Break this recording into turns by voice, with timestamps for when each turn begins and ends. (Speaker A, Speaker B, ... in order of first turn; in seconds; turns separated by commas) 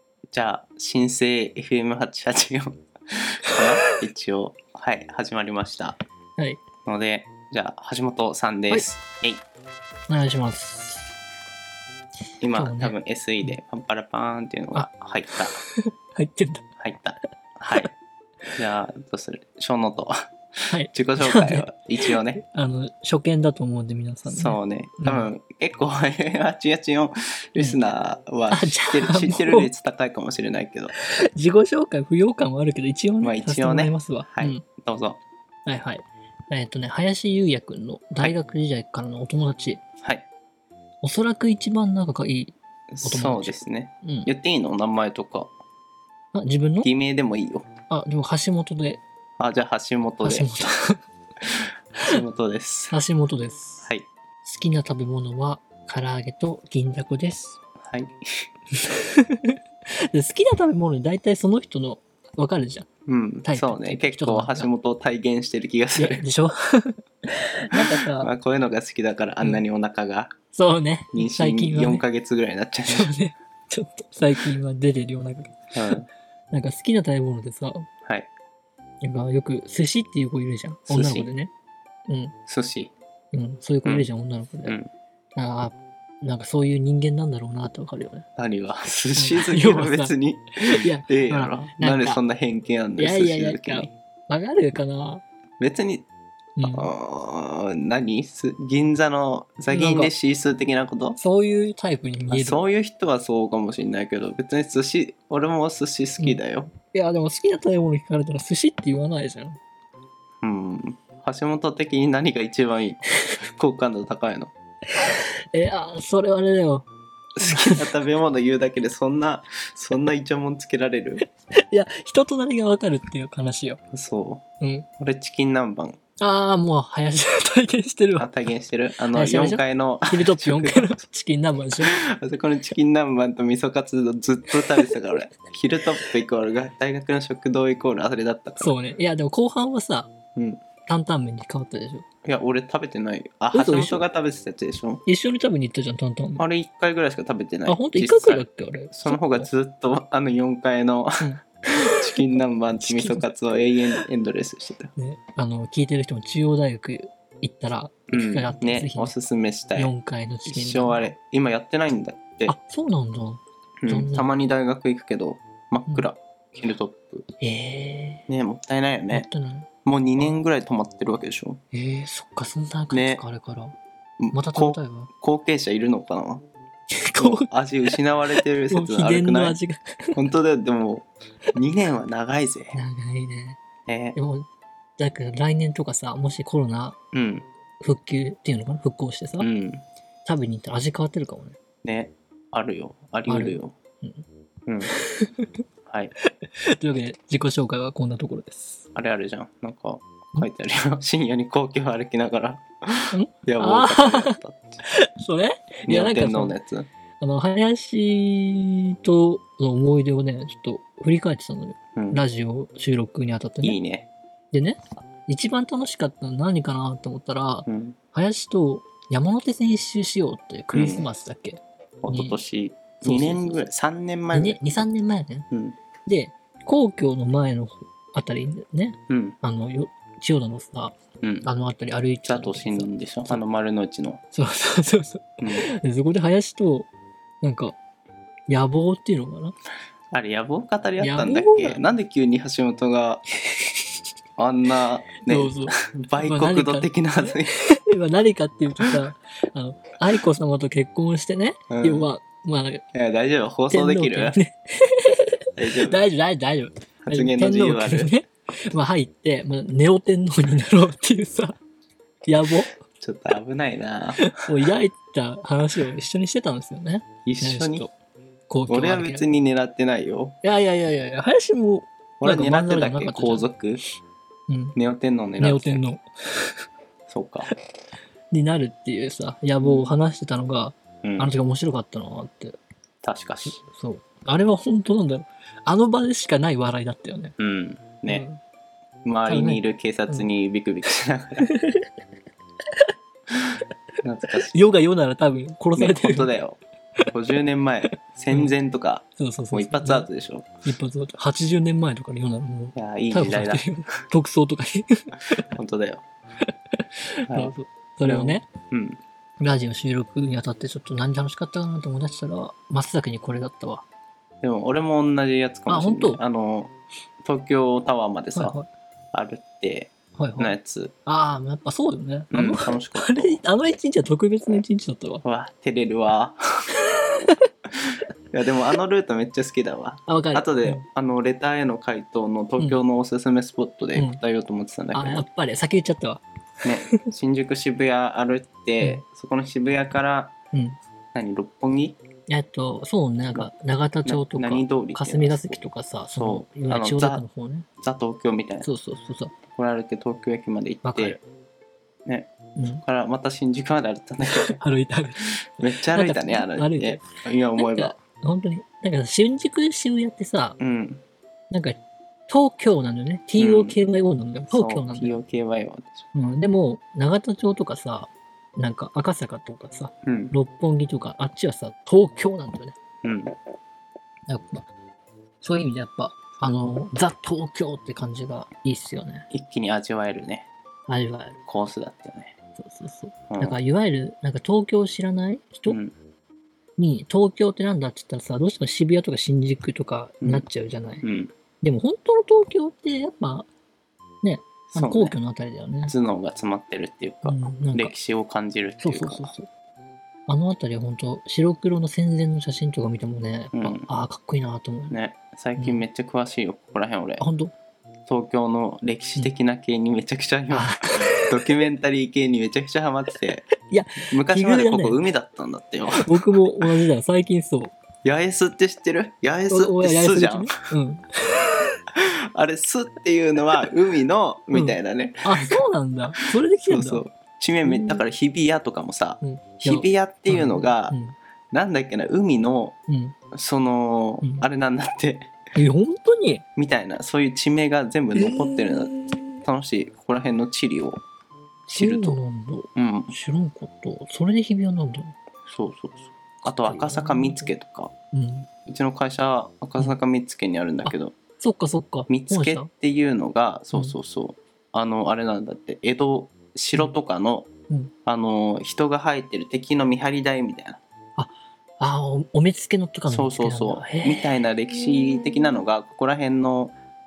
Speaker A: 0.3-6.0, Speaker A: 6.8-9.4, Speaker B: 10.1-11.1, Speaker A: 12.4-15.6, Speaker B: 12.5-13.6, Speaker B: 14.7-16.6, Speaker A: 16.8-17.9, Speaker A: 18.6-22.4, Speaker B: 20.7-25.3, Speaker A: 24.3-30.9, Speaker B: 28.5-29.7, Speaker B: 31.3-34.6, Speaker A: 33.2-35.2, Speaker B: 35.7-39.8, Speaker B: 41.0-44.3, Speaker A: 42.9-45.5, Speaker B: 46.3-46.9, Speaker A: 46.8-47.7, Speaker B: 47.9-49.0, Speaker A: 49.4-50.5, Speaker B: 50.2-51.0, Speaker A: 52.0-53.0, Speaker B: 52.9-53.9, Speaker A: 53.8-54.1, Speaker B: 54.4-57.6, Speaker A: 57.9-58.2, Speaker B: 58.8-59.5, Speaker B: 60.1-62.9, Speaker A: 63.1-66.2, Speaker B: 63.4-64.7, Speaker B: 66.0-68.3, Speaker A: 67.8-70.3, Speaker B: 70.5-72.0, Speaker A: 71.1-73.1, Speaker B: 72.9-76.0, Speaker A: 75.8-76.1, Speaker B: 76.5-77.9, Speaker B: 79.0-81.5, Speaker A: 80.9-81.3, Speaker B: 82.1-82.4, Speaker A: 82.5-82.9, Speaker B: 83.3-84.8, Speaker B: 85.4-88.3, Speaker A: 88.4-93.9, Speaker B: 89.2-90.1, Speaker B: 90.7-92.2, Speaker B: 93.0-95.2, Speaker A: 95.6-96.1, Speaker B: 96.6-96.9, Speaker A: 96.6-101.2, Speaker B: 99.7-100.1, Speaker B: 101.2-102.6, Speaker A: 102.3-106.7, Speaker B: 106.2-109.6, Speaker A: 110.4-114.5, Speaker B: 115.0-116.9, Speaker A: 117.4-121.2, Speaker B: 117.4-117.9, Speaker B: 121.7-123.8, Speaker A: 123.9-124.4, Speaker B: 124.6-124.9, Speaker A: 125.0-126.0, Speaker B: 126.2-128.3, Speaker A: 128.2-130.9, Speaker B: 129.1-132.0, Speaker A: 131.8-138.8, Speaker B: 134.5-134.9, Speaker B: 138.6-140.1, Speaker A: 140.3-140.6, Speaker B: 140.9-142.1, Speaker A: 142.2-145.0, Speaker B: 143.5-144.0, Speaker B: 145.1-146.4, Speaker A: 146.4-151.1, Speaker B: 147.7-149.5, Speaker B: 151.2-152.2, Speaker A: 151.9-154.9, Speaker B: 152.8-153.2, Speaker B: 154.9-159.1, Speaker A: 158.1-159.9, Speaker B: 159.8-161.1, Speaker A: 160.4-162.5, Speaker B: 162.4-164.4, Speaker A: 163.8-167.2, Speaker B: 167.4-168.2, Speaker A: 168.3-169.3, Speaker B: 169.1-170.4, Speaker A: 169.8-171.6, Speaker B: 171.7-173.8, Speaker A: 172.9-173.2, Speaker A: 174.2-176.4, Speaker B: 174.3-175.1, Speaker B: 176.9-180.2, Speaker A: 177.2-179.6, Speaker A: 180.1-182.8, Speaker B: 182.7-183.6, Speaker A: 183.9-184.2, Speaker B: 184.2-184.4, Speaker B: 185.0-187.0, Speaker A: 187.1-187.4, Speaker B: 187.8-189.5, Speaker A: 189.4-189.8, Speaker B: 190.2-191.6, Speaker A: 191.8-193.7, Speaker B: 193.3-194.2, Speaker B: 194.8-195.5, Speaker B: 196.2-198.8, Speaker A: 198.9-204.8, Speaker B: 203.1-206.6, Speaker A: 205.8-206.9, Speaker B: 207.2-213.8, Speaker A: 211.9-212.2, Speaker A: 213.6-214.1, Speaker B: 214.5-222.4, Speaker A: 217.7-218.0, Speaker A: 220.7-221.1, Speaker A: 222.0-224.8, Speaker B: 223.0-223.6, Speaker B: 224.3-225.5, Speaker A: 225.5-225.8, Speaker B: 226.1-233.4, Speaker A: 229.1-229.4, Speaker A: 231.2-231.5, Speaker A: 232.2-234.2, Speaker B: 234.3-236.9, Speaker A: 235.4-235.7, Speaker B: 237.4-237.8, Speaker B: 238.5-239.6, Speaker A: 240.1-243.2, Speaker B: 241.0-241.8, Speaker B: 243.6-243.9, Speaker A: 244.4-247.6, Speaker B: 245.2-252.8, Speaker A: 251.7-252.1, Speaker A: 252.9-254.4, Speaker B: 253.7-261.6, Speaker A: 255.6-256.0, Speaker A: 257.1-258.1, Speaker B: 262.2-262.7, Speaker A: 262.9-264.3, Speaker B: 264.2-267.9, Speaker A: 267.2-267.9, Speaker B: 268.5-269.2, Speaker A: 268.7-270.4, Speaker B: 270.4-273.4, Speaker A: 272.2-273.8, Speaker B: 274.5-274.8, Speaker A: 274.8-275.9, Speaker B: 275.4-276.6, Speaker A: 277.1-277.5, Speaker B: 278.3-282.6, Speaker A: 279.6-280.0, Speaker A: 281.0-281.3, Speaker A: 283.0-283.6, Speaker B: 283.4-287.3, Speaker A: 287.4-288.2, Speaker B: 288.1-288.4, Speaker A: 289.1-291.4, Speaker B: 289.3-290.3, Speaker B: 291.4-291.9, Speaker A: 294.0-294.7, Speaker B: 294.3-296.4, Speaker A: 295.8-296.6, Speaker A: 297.1-300.5, Speaker B: 297.9-298.5, Speaker B: 299.2-300.1, Speaker B: 300.6-305.4, Speaker A: 302.8-303.7, Speaker A: 305.5-306.1, Speaker B: 307.2-308.4, Speaker A: 307.3-309.0, Speaker B: 309.4-313.8, Speaker A: 314.4-316.7, Speaker B: 315.7-316.2, Speaker A: 317.2-318.6, Speaker B: 318.3-318.7, Speaker A: 319.1-320.9, Speaker B: 320.2-325.2, Speaker A: 322.3-323.4, Speaker A: 325.2-326.4, Speaker A: 328.3-335.2, Speaker B: 330.1-330.8, Speaker B: 333.9-334.2, Speaker B: 334.9-336.2, Speaker A: 336.6-340.3, Speaker B: 340.5-340.8, Speaker A: 341.1-342.0, Speaker B: 342.3-347.6, Speaker A: 344.1-345.6, Speaker A: 346.1-347.2, Speaker A: 347.8-348.7, Speaker B: 348.6-349.3, Speaker A: 349.5-351.2, Speaker B: 350.8-351.2, Speaker A: 352.1-354.6, Speaker B: 352.6-352.8, Speaker B: 354.3-357.1, Speaker A: 355.2-358.0, Speaker B: 357.6-360.6, Speaker A: 360.6-361.0, Speaker B: 361.5-365.2, Speaker A: 363.4-363.8, Speaker A: 364.5-366.1, Speaker B: 366.1-372.8, Speaker A: 370.0-370.3, Speaker A: 373.0-373.3, Speaker B: 374.3-374.7, Speaker B: 375.4-379.3, Speaker A: 379.3-380.5, Speaker B: 380.9-381.4, Speaker A: 381.5-382.3, Speaker B: 382.6-385.8, Speaker A: 383.3-383.6, Speaker A: 385.7-385.9, Speaker B: 386.8-391.0, Speaker A: 391.0-391.3, Speaker B: 391.6-393.5, Speaker B: 394.2-395.9, Speaker A: 394.7-395.1, Speaker A: 395.9-399.3, Speaker B: 397.2-397.9, Speaker B: 398.8-399.5, Speaker B: 400.3-404.9, Speaker A: 403.5-403.9, Speaker A: 404.9-407.2, Speaker B: 405.6-405.8, Speaker B: 407.2-407.5, Speaker A: 408.1-413.5, Speaker B: 410.5-411.3, Speaker B: 413.7-415.0, Speaker A: 414.1-416.4, Speaker B: 416.0-417.7, Speaker A: 418.0-420.5, Speaker B: 419.5-421.6, Speaker A: 421.9-431.0, Speaker B: 424.5-427.0, Speaker B: 427.6-428.0, Speaker B: 429.2-431.1, Speaker A: 431.5-432.8, Speaker B: 432.9-433.1, Speaker A: 433.3-435.3, Speaker B: 435.6-436.4, Speaker A: 436.6-441.0, Speaker B: 438.1-439.4, Speaker A: 441.7-442.2, Speaker B: 441.7-445.1, Speaker A: 442.8-443.1, Speaker A: 445.5-447.9, Speaker B: 446.4-447.5, Speaker B: 448.1-448.5, Speaker A: 448.7-451.1, Speaker B: 450.8-452.7, Speaker A: 452.1-457.5, Speaker A: 458.1-460.8, Speaker B: 461.2-464.4, Speaker A: 463.1-466.8